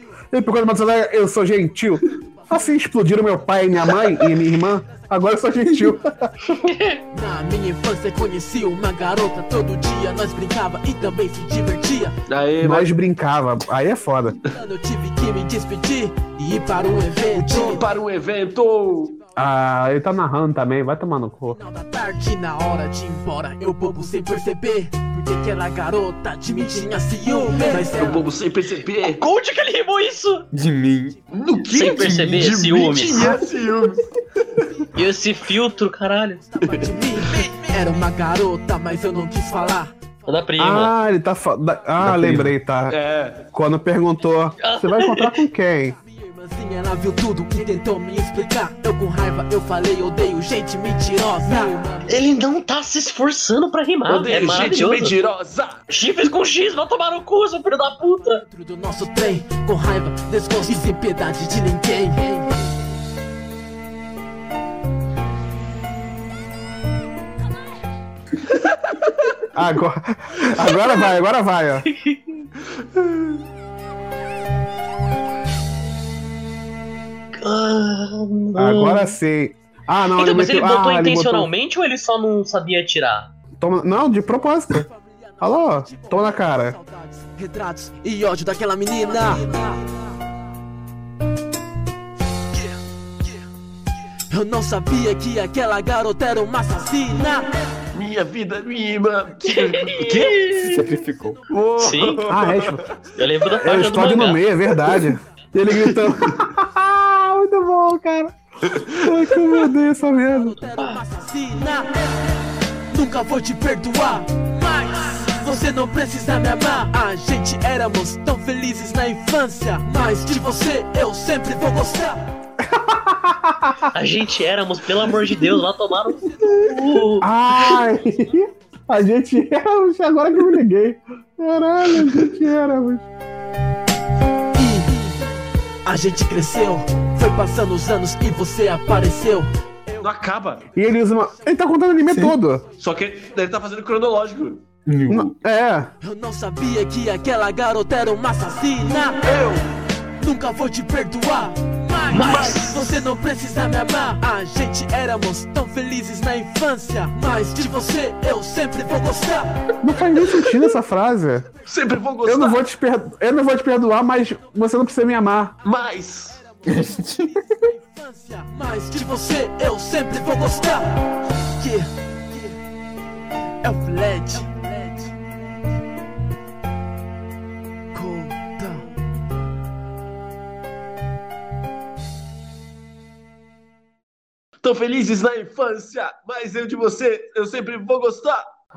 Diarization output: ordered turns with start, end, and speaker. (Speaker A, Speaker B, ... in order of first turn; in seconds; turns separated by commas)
Speaker A: 0.3-6.3, Speaker B: 6.5-7.0, Speaker C: 7.1-12.2, Speaker D: 12.3-12.9, Speaker A: 12.6-14.4, Speaker C: 14.5-17.9, Speaker D: 17.4-19.2, Speaker A: 19.4-21.6, Speaker C: 21.5-28.3, Speaker D: 27.5-29.2, Speaker B: 29.1-30.5, Speaker E: 30.5-31.2, Speaker D: 31.3-34.7, Speaker B: 31.7-33.4, Speaker E: 32.0-32.5, Speaker B: 35.0-36.4, Speaker C: 36.6-40.0, Speaker D: 36.6-37.4, Speaker B: 40.3-41.0, Speaker A: 40.6-43.0, Speaker E: 42.0-42.5, Speaker D: 42.9-43.5, Speaker A: 43.5-46.0, Speaker B: 44.6-45.4, Speaker C: 46.0-52.2, Speaker B: 51.6-55.2, Speaker D: 54.1-55.8, Speaker B: 55.9-58.4, Speaker C: 58.5-62.6, Speaker D: 68.5-69.3, Speaker A: 69.5-71.9, Speaker B: 71.9-72.5, Speaker D: 72.8-73.3, Speaker B: 77.3-79.2, Speaker A: 78.6-81.5, Speaker B: 80.2-83.3, Speaker A: 83.6-84.9, Speaker C: 84.9-89.8, Speaker A: 85.4-86.8, Speaker C: 92.5-93.4, Speaker C: 94.3-97.5, Speaker D: 97.9-100.8, Speaker B: 99.5-100.7, Speaker E: 100.6-101.4, Speaker D: 101.5-103.0, Speaker B: 101.8-102.2, Speaker A: 102.3-102.8, Speaker B: 103.2-104.4, Speaker A: 103.6-108.3, Speaker D: 105.7-106.3, Speaker D: 108.7-109.0, Speaker A: 108.9-110.6, Speaker C: 110.4-112.0, Speaker B: 110.6-111.0, Speaker C: 112.9-122.2, Speaker A: 122.6-123.9, Speaker B: 123.9-127.3, Speaker A: 127.2-133.0, Speaker C: 134.6-135.2, Speaker C: 135.8-139.9, Speaker D: 140.0-140.7, Speaker A: 140.8-142.7, Speaker E: 142.1-142.4, Speaker D: 142.8-144.7, Speaker E: 144.8-145.4, Speaker A: 145.1-145.9, Speaker C: 146.0-149.3, Speaker D: 149.2-149.6, Speaker C: 150.2-159.5, Speaker B: 152.1-152.8, Speaker A: 159.8-161.5, Speaker D: 161.6-162.6, Speaker A: 162.2-165.6, Speaker D: 165.6-166.4, Speaker E: 166.7-167.5, Speaker C: 166.8-170.9, Speaker C: 171.5-172.6, Speaker C: 173.6-175.1, Speaker C: 177.9-178.9, Speaker D: 184.6-188.4